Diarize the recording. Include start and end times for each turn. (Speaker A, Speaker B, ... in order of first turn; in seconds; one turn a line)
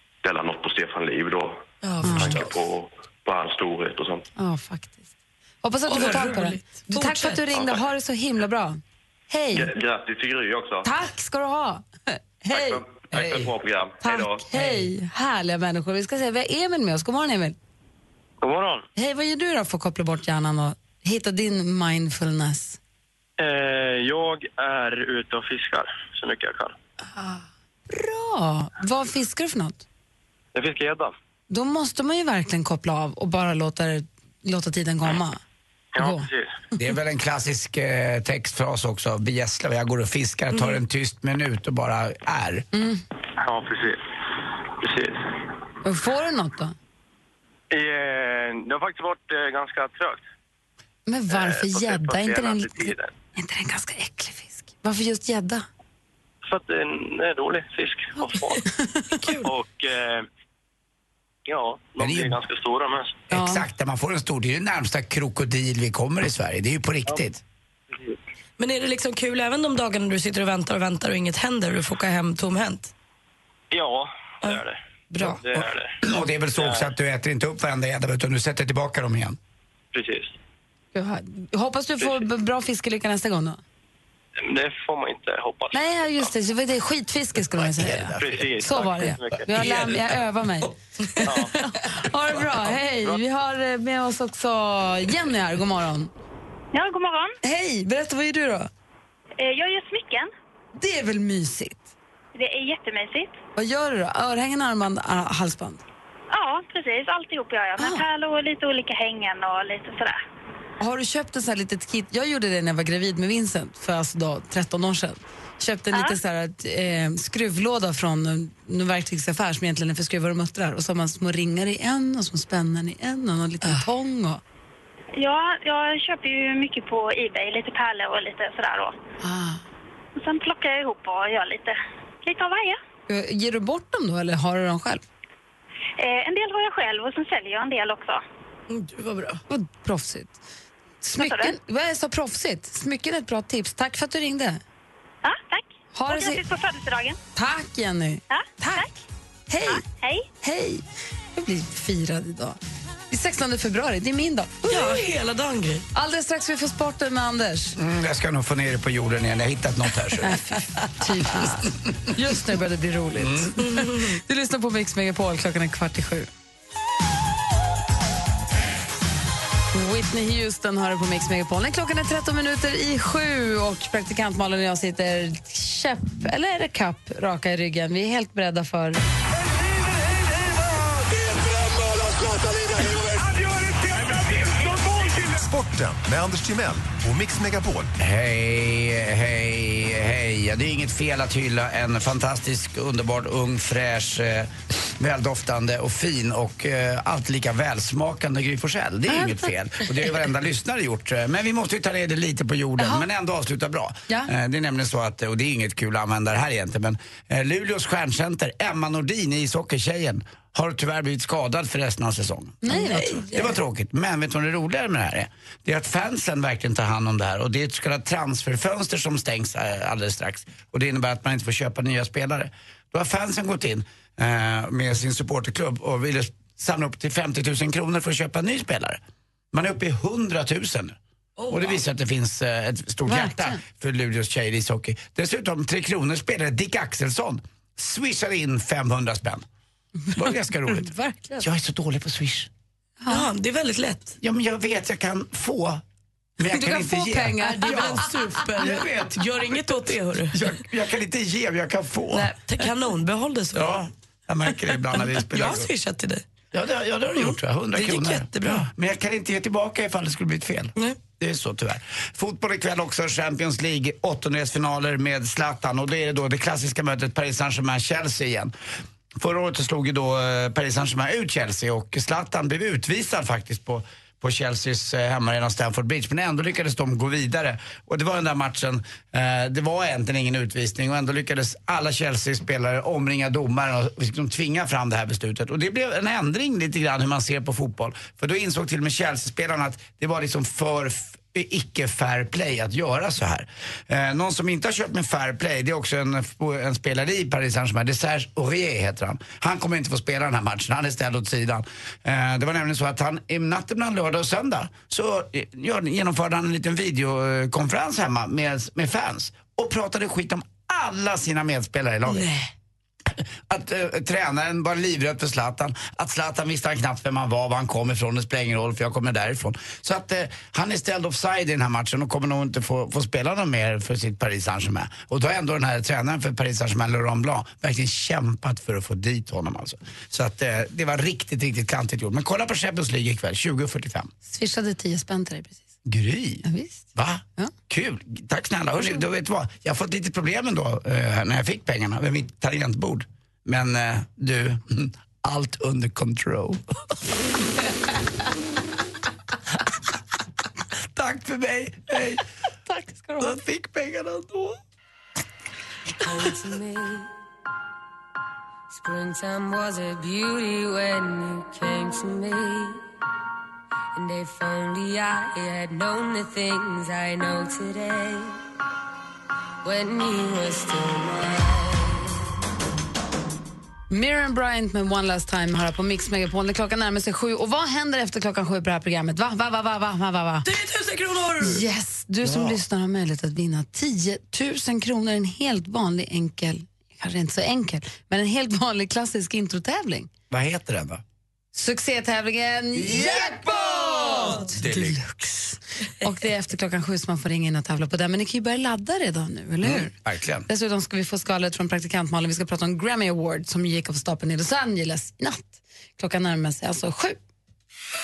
Speaker A: 0.2-4.3
Speaker B: 1.8-2.5
Speaker C: 2.0-2.4
Speaker C: 4.4-5.1
Speaker C: 5.6-9.7
Speaker B: 5.8-7.5
Speaker A: 7.5-7.8
Speaker A: 9.5-10.9
Speaker C: 10.8-13.5
Speaker A: 12.5-14.5
Speaker C: 14.0-17.6
Speaker D: 18.4-18.9
Speaker C: 18.9-22.8
Speaker D: 23.4-26.8
Speaker C: 27.2-29.8
Speaker D: 30.5-31.1
Speaker C: 31.5-35.4
Speaker D: 36.0-36.5
Speaker C: 36.0-36.3
Speaker E: 36.7-42.6
Speaker C: 42.7-43.0
Speaker D: 43.4-44.0
Speaker D: 44.8-45.2
Speaker C: 45.8-46.7
Speaker D: 47.7-50.2
Speaker C: 51.1-55.6
Speaker D: 51.3-53.1
Speaker D: 56.4-58.6
Speaker C: 58.6-59.2
Speaker B: 59.2-59.5
Speaker D: 59.4-60.2
Speaker D: 61.5-63.2
Speaker E: 62.0-62.4
Speaker E: 63.3-67.4
Speaker C: 63.3-63.6
Speaker D: 67.9-68.2
Speaker B: 68.6-72.9
Speaker D: 73.7-76.0
Speaker E: 76.0-79.4
Speaker D: 76.5-76.9
Speaker D: 79.9-80.3
Speaker C: 80.9-83.6
Speaker D: 84.4-86.3
Speaker C: 85.7-96.1
Speaker D: 88.0-90.0
Speaker D: 91.2-91.6
Speaker D: 92.5-93.2
Speaker F: 96.7-97.3
Speaker C: 97.4-98.7
Speaker F: 99.4-100.3
Speaker C: 100.8-101.9
Speaker F: 102.3-103.3
Speaker C: 103.5-105.8
Speaker F: 106.3-110.2
Speaker C: 110.8-124.4
Speaker F: 115.9-116.2
Speaker F: 125.2-129.0
Speaker C: 129.2-129.6
Speaker F: 130.2-132.8
Speaker C: 133.1-135.0
Speaker F: 136.0-138.2
Speaker B: 138.7-139.4
Speaker C: 139.5-140.4
Speaker C: 141.0-144.6
Speaker F: 141.2-141.5
Speaker F: 145.2-147.2
Speaker C: 145.9-146.4
Speaker C: 147.3-148.9
Speaker F: 148.3-148.9
Speaker C: 149.5-149.8
Speaker F: 149.7-150.3
Speaker C: 150.4-150.8
Speaker C: 151.3-152.6
Speaker C: 153.1-155.1
Speaker B: 154.7-155.8
Speaker C: 155.9-157.8
Speaker E: 157.8-160.4
Speaker C: 160.2-166.3
Speaker E: 163.2-163.8
Speaker B: 163.7-164.0
Speaker C: 169.7-179.0
Speaker G: 185.4-187.8
Speaker E: 188.0-229.0
Speaker C: 199.1-199.4
Speaker C: 202.8-203.1
Speaker C: 212.6-213.5
Speaker B: 212.8-213.3
Speaker E: 229.5-231.0
Speaker B: 231.4-231.8
Speaker E: 231.5-239.4
Speaker C: 233.1-233.6
Speaker E: 240.1-242.5
Speaker C: 240.7-241.4
Speaker C: 243.0-243.3
Speaker B: 243.1-244.2
Speaker E: 244.2-245.8
Speaker E: 246.4-252.3
Speaker C: 246.4-248.7
Speaker B: 247.7-250.5
Speaker B: 252.1-253.8
Speaker E: 253.5-255.7
Speaker B: 254.8-256.2
Speaker E: 256.5-268.5
Speaker B: 257.2-258.6
Speaker E: 269.2-312.3
Speaker E: 313.2-334.1
Speaker C: 334.2-335.7
Speaker E: 335.9-346.6
Speaker C: 336.4-336.9
Speaker E: 350.9-352.2
Speaker C: 352.7-353.3
Speaker E: 353.2-354.6
Speaker H: 356.0-357.1
Speaker H: 358.7-362.8
Speaker H: 363.9-368.4
Speaker H: 369.6-372.2
Speaker C: 373.9-380.5
Speaker B: 380.4-381.6
Speaker C: 381.4-390.1
Speaker E: 382.2-382.6
Speaker E: 390.3-391.0
Speaker C: 391.5-399.9
Speaker E: 394.6-394.9
Speaker E: 399.6-400.5
Speaker C: 400.5-407.2